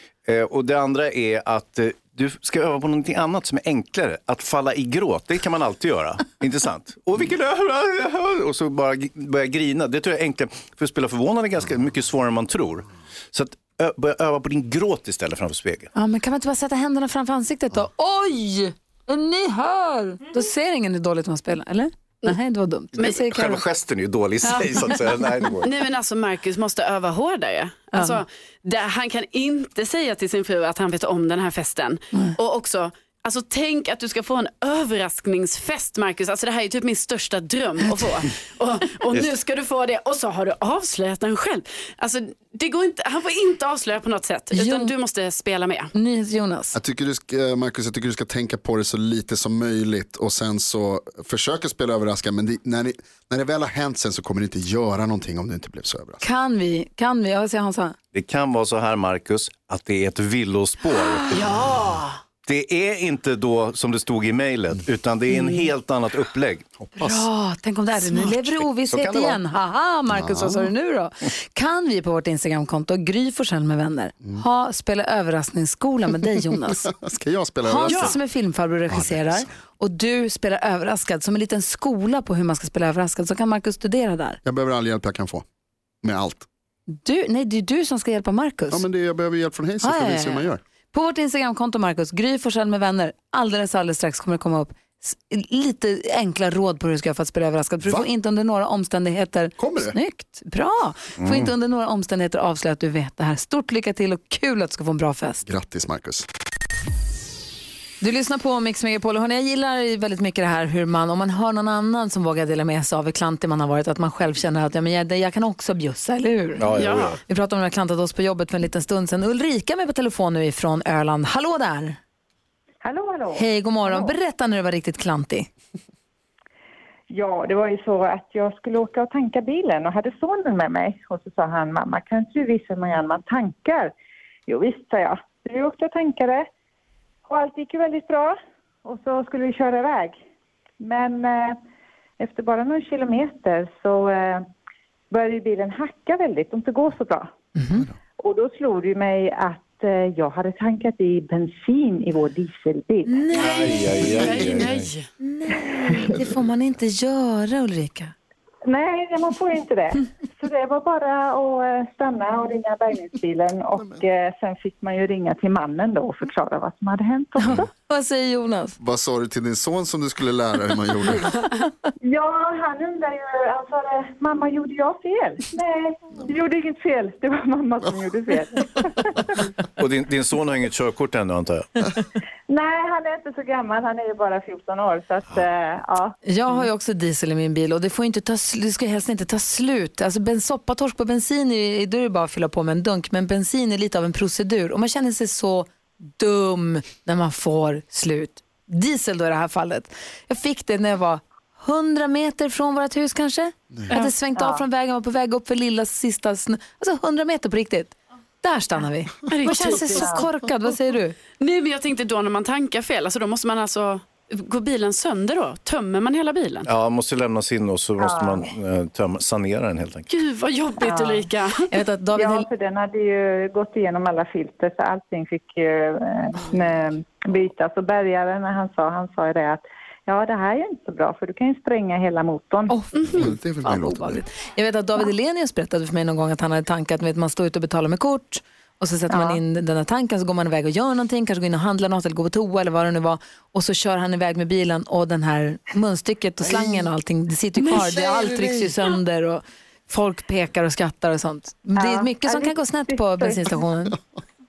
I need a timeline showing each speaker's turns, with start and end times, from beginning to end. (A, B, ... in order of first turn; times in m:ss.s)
0:00.2-0:15.9 A
0:15.9-0:23.6 B
0:23.1-0:25.7 A
0:24.4-0:25.0 B
0:25.6-0:45.9 C
0:44.5-0:44.9 B
0:45.9-0:46.8 B
0:46.7-0:56.2 D
0:56.2-0:58.0 B
0:58.1-1:01.5 A
1:00.9-1:01.4 B
1:01.3-1:02.2 C
1:02.4-1:06.7 A
1:06.8-1:07.3 D
1:07.0-1:16.9 B
1:08.3-1:09.4 A
1:10.1-1:10.7 D
1:16.7-1:18.2 D
1:17.6-1:24.4 B
1:17.9-1:18.2 C
1:18.9-1:19.5 D
1:24.4-1:25.4 D
1:26.0-1:26.4 D
1:26.9-1:28.8 B
1:28.7-1:30.6 D
1:29.8-1:45.4 B
1:39.6-1:40.0 D
1:41.2-1:41.5 A
1:45.4-1:46.3 D
1:48.0-1:56.7 B
1:56.6-1:57.2 A
1:56.7-1:57.2 C
1:57.2-2:02.0 B
2:02.8-2:04.1 E
2:03.3-2:05.5 B
2:07.1-2:13.9 E
2:14.5-2:16.5 E
2:17.2-2:20.2 E
2:20.8-2:21.6 E
2:22.2-2:24.4 E
2:25.1-2:27.3 E
2:27.6-2:27.8 B
2:28.2-2:33.2 E
2:33.1-2:34.2 B
2:33.3-2:35.0 C
2:33.3-2:34.9 A
2:35.2-2:38.1 B
2:38.6-2:47.7 E
2:47.4-2:48.8 B
2:48.8-2:51.3 D
2:52.0-2:59.3 E
2:59.8-3:01.8 A
3:02.5-3:06.2 E
3:06.2-3:31.2 B
3:29.3-3:30.2 C
3:29.9-3:30.2 E
3:31.4-3:36.7 C
3:36.6-3:40.1 A
3:38.0-3:38.4 E
3:40.1-3:41.6 C
3:40.8-3:41.3 E
3:41.7-3:42.4 B
3:42.1-3:52.7 E
3:52.7-4:14.0 B
3:52.9-3:53.3 C
3:53.1-3:54.2 D
3:59.1-3:59.4 E
4:11.8-4:13.4 E